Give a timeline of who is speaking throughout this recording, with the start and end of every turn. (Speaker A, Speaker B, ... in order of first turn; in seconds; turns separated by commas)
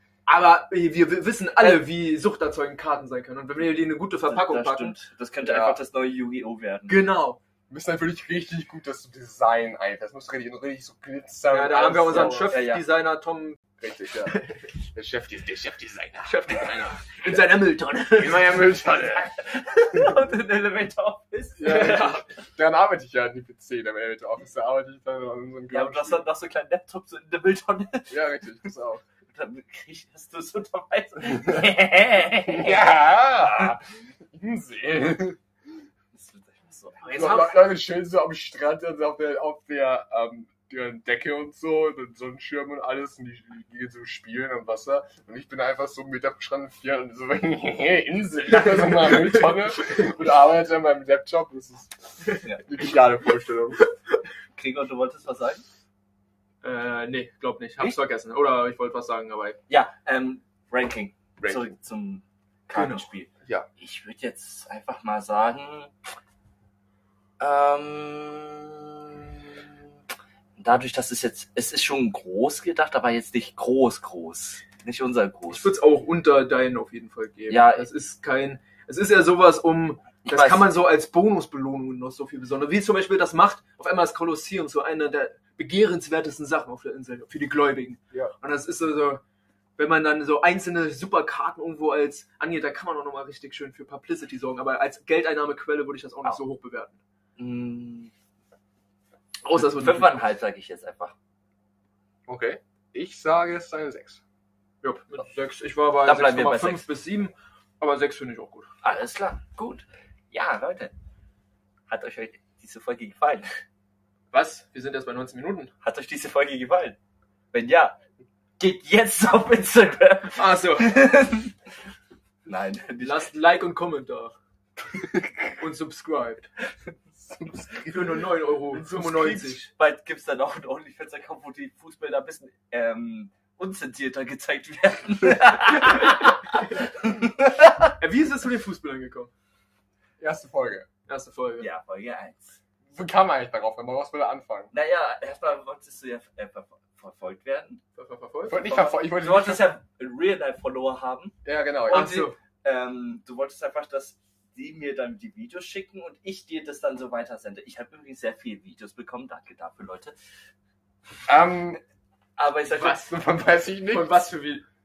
Speaker A: 0.2-5.0, Speaker B: 1.6-1.8, Speaker B: 4.2-7.0, Speaker C: 5.4-5.8, Speaker A: 6.9-7.4, Speaker C: 7.7-12.6, Speaker A: 11.5-13.6, Speaker B: 12.1-12.8, Speaker C: 13.8-19.3, Speaker A: 16.2-18.7, Speaker B: 19.1-22.1, Speaker C: 21.6-26.3, Speaker A: 21.6-22.2, Speaker B: 25.7-28.2, Speaker C: 28.1-29.0, Speaker B: 29.3-33.0, Speaker C: 32.4-35.4, Speaker B: 36.1-37.2, Speaker A: 37.0-37.7, Speaker C: 37.1-53.8, Speaker A: 48.5-50.0, Speaker B: 54.5-55.6, Speaker A: 56.6-59.6, Speaker B: 59.7-65.9, Speaker C: 61.4-61.7, Speaker A: 62.7-63.0, Speaker B: 67.4-69.6, Speaker B: 70.6-75.7, Speaker A: 75.5-89.2, Speaker B: 77.5-77.8, Speaker B: 80.2-80.7, Speaker A: 89.8-97.0, Speaker B: 97.4-98.1, Speaker A: 99.4-100.2, Speaker B: 99.5-101.1, Speaker C: 102.3-104.2, Speaker A: 104.8-108.7, Speaker B: 106.0-106.9, Speaker B: 108.8-110.9, Speaker B: 111.9-113.6, Speaker A: 114.3-115.7, Speaker B: 115.8-117.0, Speaker B: 117.5-118.0, Speaker B: 118.6-121.5, Speaker A: 120.3-121.1, Speaker B: 122.5-123.3, Speaker A: 123.0-124.3, Speaker C: 125.0-125.5, Speaker A: 125.6-126.5, Speaker C: 127.2-128.2, Speaker A: 127.8-129.7, Speaker B: 128.7-137.9, Speaker A: 138.0-139.3, Speaker C: 140.2-140.9, Speaker A: 141.1-141.7, Speaker B: 141.6-142.6, Speaker C: 142.9-144.7, Speaker B: 144.7-147.8, Speaker A: 147.9-148.6, Speaker C: 148.5-149.7, Speaker B: 148.6-160.1, Speaker C: 151.4-152.2, Speaker A: 151.9-152.3, Speaker C: 161.3-161.8, Speaker B: 162.4-163.1, Speaker C: 162.8-164.2, Speaker A: 162.8-163.1, Speaker A: 163.8-164.6